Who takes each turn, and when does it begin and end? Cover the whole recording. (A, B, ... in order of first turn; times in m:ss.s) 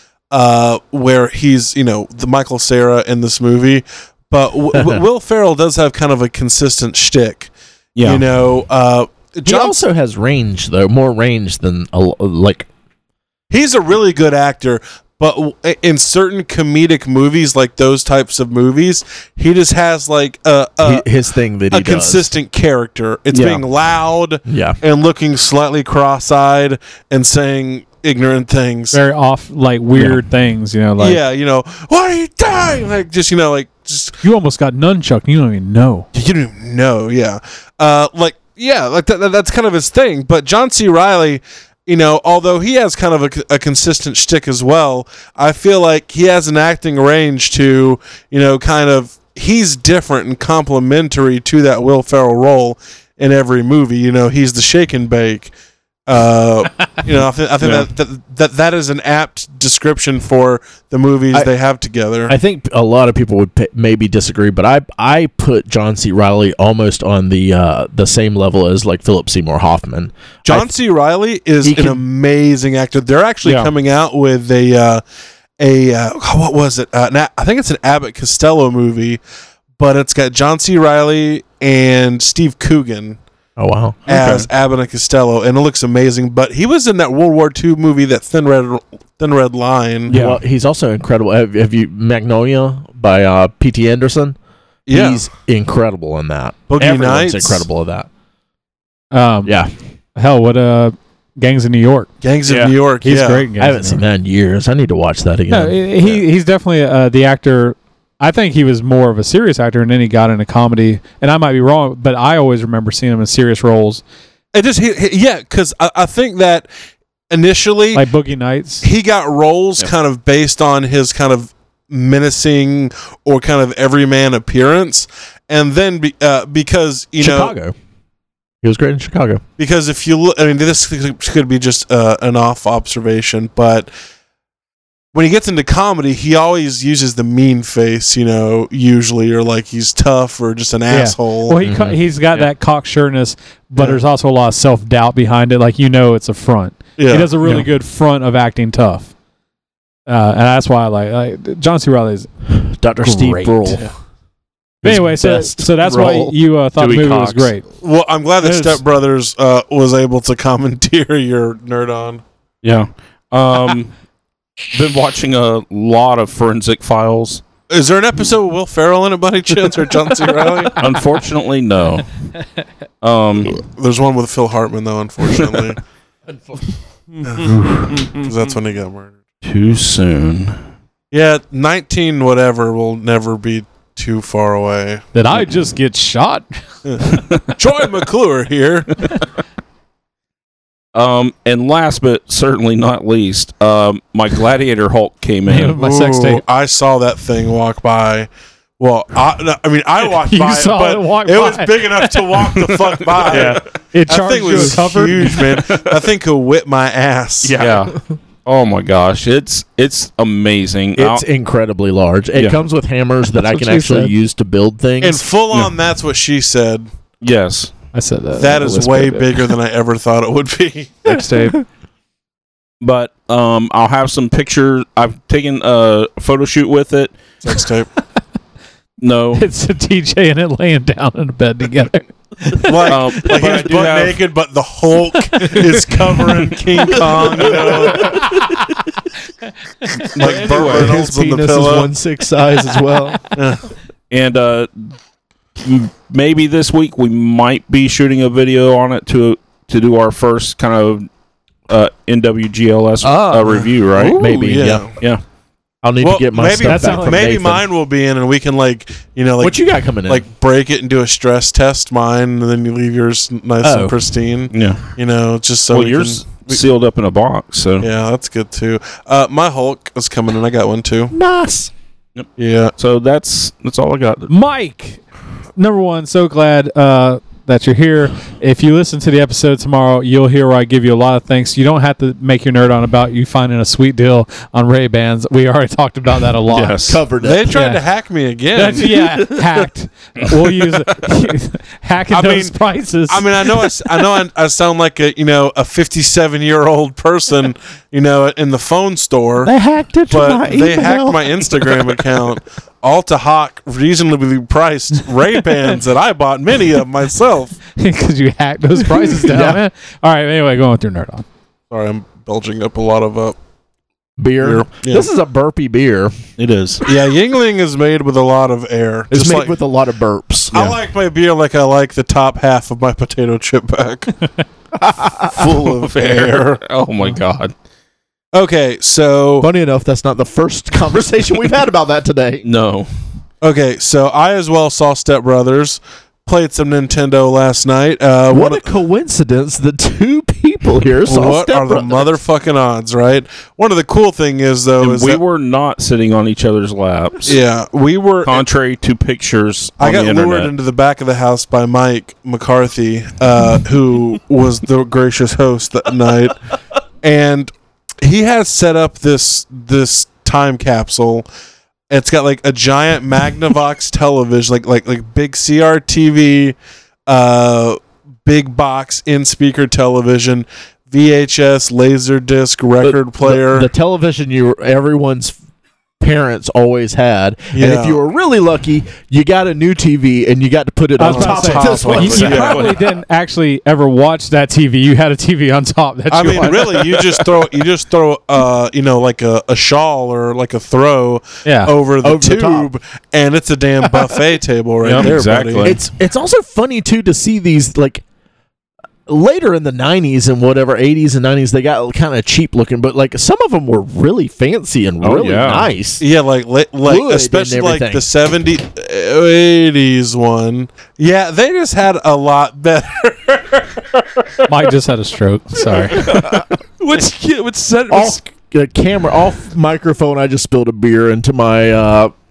0:00.3-0:09.8 A
0:08.0-0:08.2 B
0:09.4-0:12.7 C
0:13.5-0:21.0 A
0:20.8-0:22.3 C
0:21.7-0:29.0 A
0:23.3-0:23.6 B
0:24.5-0:24.8 C
0:28.9-0:31.2 D
0:29.9-0:30.2 C
0:31.0-0:34.2 A
0:34.2-0:36.0 D
0:36.1-0:55.5 A
0:56.0-1:02.3 A
0:57.6-0:57.9 B
1:02.3-1:10.7 C
1:10.4-1:15.0 A
1:11.6-1:12.0 C
1:13.4-1:13.7 B
1:15.6-1:19.2 A
1:19.8-1:23.2 A
1:23.6-1:24.1 C
1:24.1-1:30.2 A
1:24.2-1:24.4 E
1:30.1-1:34.4 C
1:30.1-1:30.4 E
1:34.8-1:35.3 A
1:34.9-1:38.1 C
1:36.7-1:37.7 A
1:39.1-1:39.5 D
1:39.4-1:39.7 C
1:40.2-1:42.1 D
1:42.2-1:43.5 A
1:42.4-1:42.7 E
1:43.0-1:44.0 D
1:43.6-1:46.2 C
1:45.5-1:54.0 D
1:54.5-1:56.7 A
1:57.3-1:58.0 A
1:57.9-1:58.9 D
1:58.8-2:07.5 A
2:07.2-2:07.7 C
2:08.6-2:09.4 C
2:09.6-2:13.9 A
2:15.1-2:21.6 A
2:20.9-2:29.1 D
2:21.6-2:22.0 C
2:27.0-2:27.6 A
2:30.1-2:32.3 D
2:32.8-2:33.9 C
2:33.0-2:33.8 D
2:34.8-2:36.3 C
2:34.8-2:37.6 D
2:36.8-2:37.5 E
2:37.8-2:42.2 A
2:38.4-2:38.8 D
2:42.6-2:43.9 B
2:44.7-2:47.4 B
2:47.7-2:50.8 A
2:50.8-2:52.2 B
2:53.0-2:53.6 B
2:53.7-2:55.8 A
2:57.1-2:58.4 E
2:57.2-2:59.1 A
2:59.4-3:00.6 B
3:01.1-3:05.0 A
3:05.1-3:06.5 D
3:06.8-3:09.0 A
3:07.1-3:07.4 B
3:10.9-3:15.7 B
3:15.5-3:16.4 D
3:15.7-3:27.6 A
3:20.3-3:22.3 D
3:22.6-3:23.5 B
3:23.3-3:23.6 E
3:23.9-3:25.4 D
3:25.4-3:25.8 B
3:27.4-3:27.9 E
3:27.6-3:31.2 B
3:31.0-3:35.2 C
3:33.4-3:34.1 D
3:35.0-3:36.9 A
3:37.2-3:37.7 B
3:37.9-3:39.4 D
3:38.4-3:41.1 A
3:41.0-3:41.6 E
3:42.8-3:47.2 B
3:47.4-3:47.9 A
3:49.0-3:49.4 B
3:49.4-3:53.3 D
3:52.6-3:58.4 A
3:52.8-3:54.2 B
3:55.3-3:55.7 D
3:57.9-3:58.5 D
4:00.1-4:01.0 B
4:00.2-4:01.9 A
4:00.3-4:03.3 C
4:03.3-4:03.7 A
4:04.1-4:04.9 B
4:05.6-4:11.1 B
4:11.7-4:14.4 B
4:13.0-4:13.5 E
4:13.4-4:14.9 C
4:14.0-4:15.0 A
4:15.8-4:17.6 C
4:16.0-4:26.6 A
4:16.6-4:17.3 D
4:19.4-4:20.2 C
4:23.6-4:23.9 C
4:24.5-4:24.9 B
4:25.7-4:27.9 B
4:27.8-4:31.1 A
4:31.1-4:31.7 C
4:32.2-4:34.3 B
4:32.4-4:32.7 A
4:34.3-4:35.0 D
4:35.6-4:46.9 D
4:46.5-4:47.0 B
4:46.8-4:47.5 C
4:47.2-4:48.9 A
4:47.5-4:47.8 D
4:48.5-4:53.9 D
4:52.1-4:59.5 A
4:59.4-5:01.9 C
5:00.1-5:07.6 A
5:07.8-5:11.2 D
5:09.2-5:09.6 C
5:11.7-5:13.4 A
5:14.2-5:16.1 C
5:14.4-5:15.1 A
5:16.4-5:16.8 B
5:16.8-5:19.5 A
5:19.1-5:20.8 C
5:20.5-5:24.1 A
5:24.8-5:25.5 C
5:25.3-5:26.6 A
5:25.8-5:27.5 B
5:28.3-5:29.5 A
5:29.4-5:32.4 C
5:32.4-5:32.9 B
5:33.4-5:38.6 A
5:38.3-5:42.2 C
5:41.0-5:45.2 A
5:44.8-5:47.4 B
5:47.2-5:48.4 A
5:48.2-5:50.5 B
5:49.8-5:56.4 A
5:57.0-6:01.3 A
6:01.9-6:06.6 A
6:07.1-6:13.7 A
6:12.8-6:15.4 C
6:16.0-6:22.7 C
6:17.5-6:18.0 A
6:21.0-6:27.0 D
6:21.0-6:22.7 A
6:22.2-6:22.8 B
6:26.1-6:35.8 A
6:31.4-6:31.7 D
6:32.0-6:32.7 C
6:34.8-6:35.8 B
6:35.6-6:38.0 C
6:39.1-6:46.0 C
6:45.0-6:45.7 B
6:46.0-6:54.4 A
6:46.8-6:48.0 C
6:54.5-6:56.1 D
6:55.9-6:58.2 E
6:57.9-7:02.1 C